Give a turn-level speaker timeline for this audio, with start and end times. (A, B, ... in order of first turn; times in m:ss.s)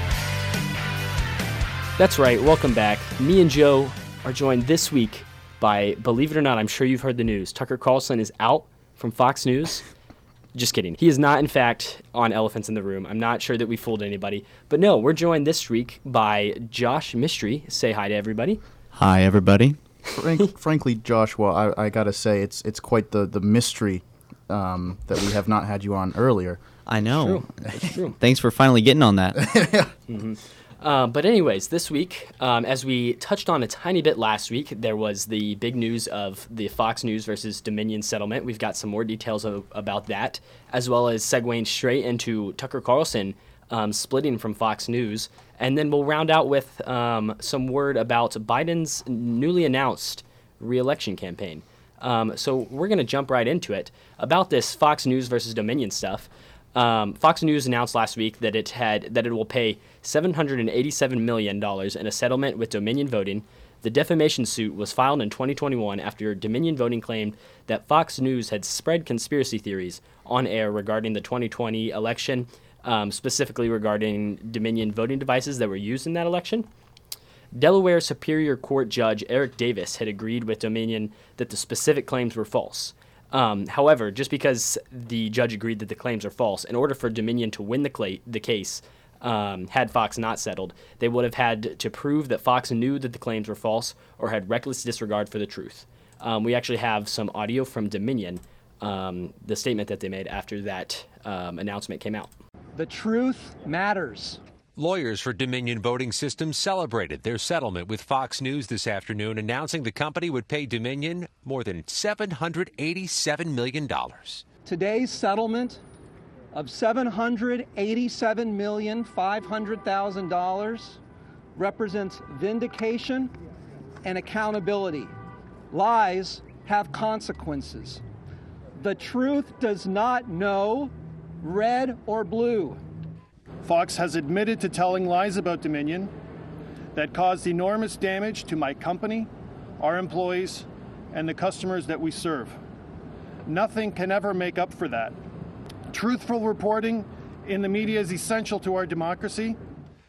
0:02.0-0:09.8 A
0:10.6-0:18.6 A
0:18.9-0:19.8 B
0:20.2-0:26.6 C
0:26.9-0:27.5 B
0:27.1-0:28.2 A
0:28.2-0:29.4 B
0:29.4-0:29.9 C
0:30.1-1:16.7 A
1:17.5-1:42.3 A
1:42.8-1:44.4 D
1:44.8-1:54.4 E
1:54.6-1:55.8 D
1:56.5-2:01.0 D
2:01.6-2:03.3 D
2:04.0-2:05.1 D
2:05.7-2:08.0 D
2:08.8-2:12.8 D
2:13.6-2:16.1 F
2:17.0-2:22.6 F
2:23.5-2:25.2 F
2:25.9-2:29.6 F